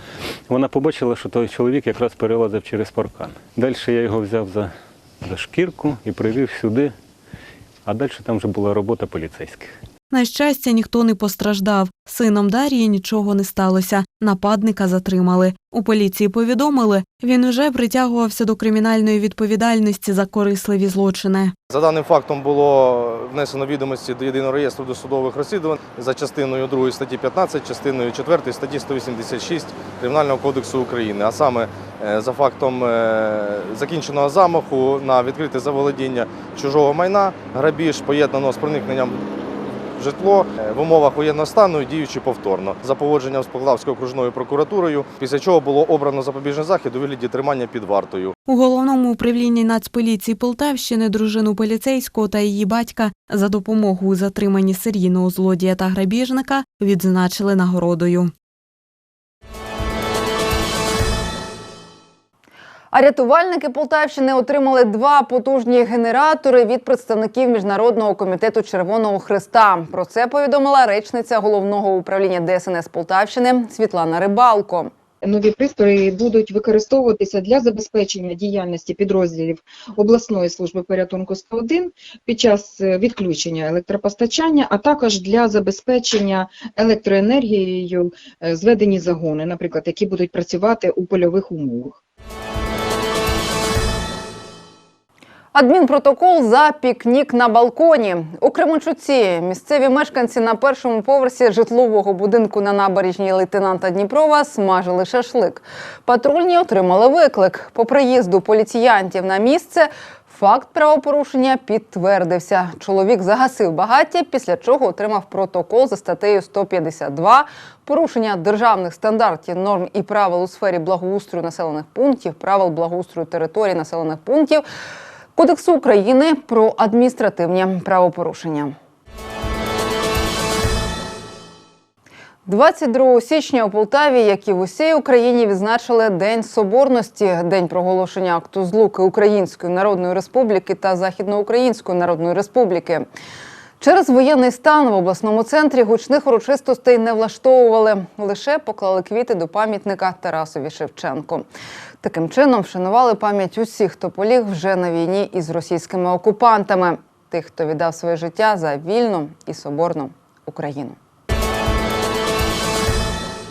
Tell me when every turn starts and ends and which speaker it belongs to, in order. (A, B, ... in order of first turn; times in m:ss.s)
0:00.5-0:04.7 A
0:05.2-0:06.9 A
0:07.8-0:09.7 A
0:10.1-0:21.5 B
0:21.7-0:39.2 C
0:39.9-0:48.3 C
0:48.4-0:58.3 B
1:02.9-1:14.9 D
1:15.2-1:32.0 E
1:35.5-2:04.6 D
2:05.4-2:08.7 D
2:12.4-2:23.1 D
2:23.8-2:31.5 D
2:32.0-2:41.0 D